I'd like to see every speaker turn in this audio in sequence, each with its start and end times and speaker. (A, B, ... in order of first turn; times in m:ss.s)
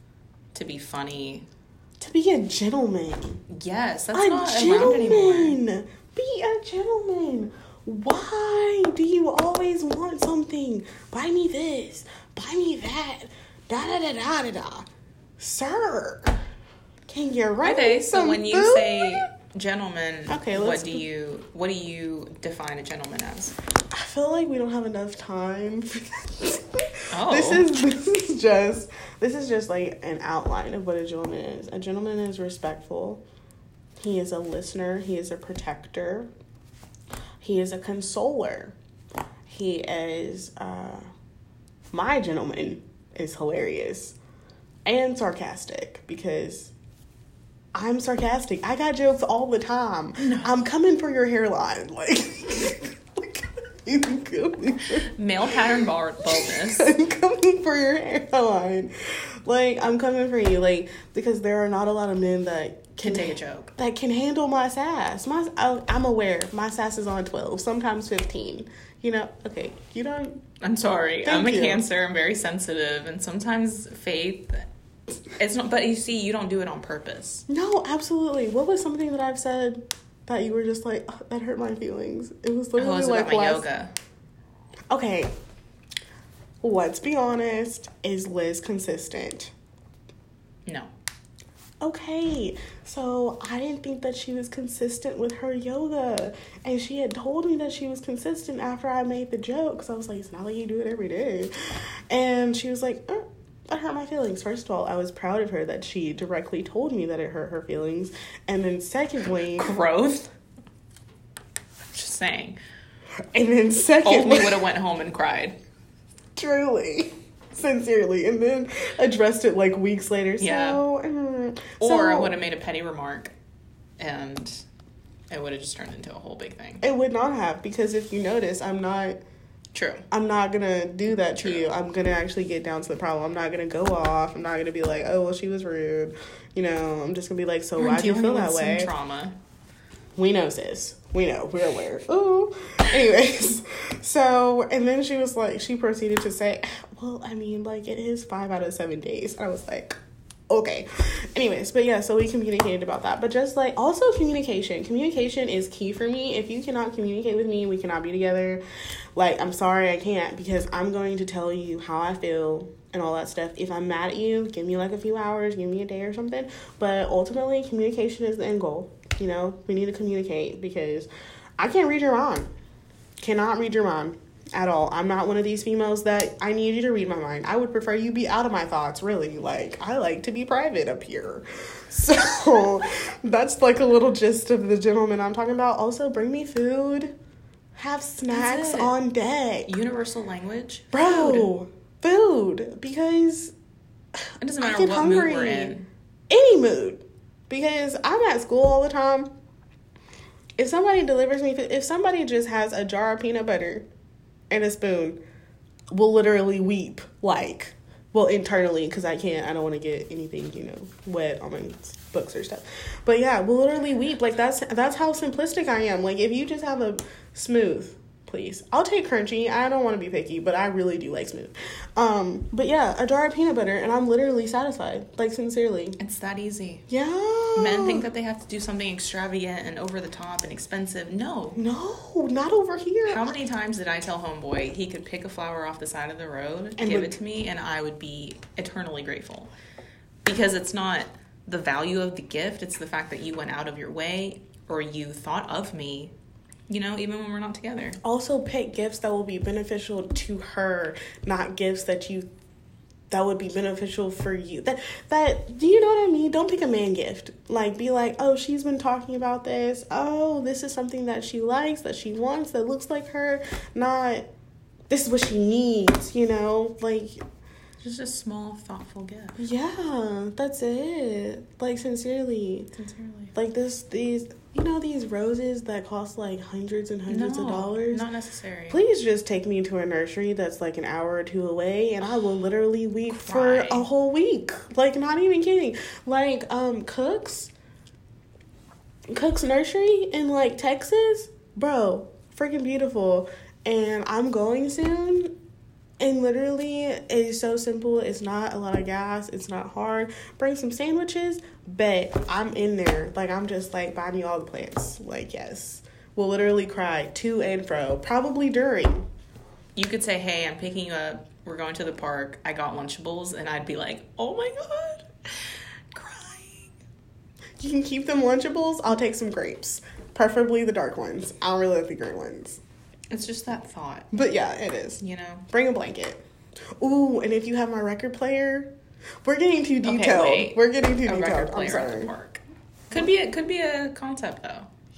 0:00.5-0:01.5 A
0:02.0-0:03.4 B
0:03.5-0:05.6 A
0:04.1-0:14.9 B
0:15.4-0:16.4 B
0:17.1-0:19.2 B
0:17.6-0:23.6 A
0:20.3-0:21.0 B
0:23.9-0:33.2 B
0:27.1-0:27.7 A
0:34.0-0:36.3 B
0:37.4-0:38.8 B
0:39.5-0:41.0 B
0:41.9-0:44.2 B
0:44.8-0:46.7 B
0:47.7-0:55.7 B
0:50.2-0:50.5 A
0:55.0-0:56.9 A
0:56.2-1:10.4 B
1:03.0-1:03.7 A
1:10.6-1:14.7 A
1:11.2-1:11.8 B
1:15.4-1:17.4 A
1:17.5-1:23.6 B
1:22.8-1:23.9 A
1:24.9-1:25.3 B
1:26.6-1:29.5 B
1:30.6-1:30.9 A
1:31.8-1:49.7 B
1:49.5-1:50.3 A
1:51.9-1:52.6 A
1:53.3-1:54.7 B
1:54.0-1:55.6 A
1:56.4-2:02.3 B
2:00.4-2:00.8 A
2:01.8-2:03.3 A
2:04.0-2:04.6 A
2:05.3-2:06.8 A
2:06.8-2:09.2 B
2:09.7-2:10.1 A
2:10.1-2:18.9 B
2:11.4-2:11.7 A
2:17.8-2:19.4 A
2:20.2-2:30.0 B
2:30.5-2:38.6 B
2:39.2-2:52.5 B
2:53.2-3:07.1 B
3:07.7-3:09.7 B
3:08.3-3:09.0 A
3:09.7-3:11.5 A
3:10.9-3:13.5 B
3:14.4-3:15.9 A
3:14.6-3:15.7 B
3:16.3-3:19.3 B
3:20.6-3:23.8 B
3:24.5-3:25.2 B
3:25.9-3:46.0 B
3:46.0-3:46.8 A
3:46.9-3:48.0 B
3:47.6-3:51.6 A
3:51.6-3:53.3 B
3:53.0-3:59.5 A
3:56.8-3:57.2 B
4:00.2-4:06.1 A
4:06.7-4:08.0 A
4:08.0-4:12.3 B
4:13.1-4:24.3 B
4:24.9-4:27.2 B
4:27.8-4:29.4 A
4:29.4-4:32.7 B
4:32.7-4:33.3 A
4:33.3-4:38.0 B
4:37.1-4:38.8 A
4:38.7-4:47.5 B
4:43.1-4:43.9 A
4:49.1-4:55.3 B
4:56.0-5:09.0 B
5:09.7-5:16.7 A
5:17.6-5:22.6 B
5:23.1-5:24.1 A
5:24.1-5:26.2 B
5:25.0-5:25.5 A
5:26.8-5:28.7 B
5:29.2-5:32.1 B
5:29.8-5:34.7 A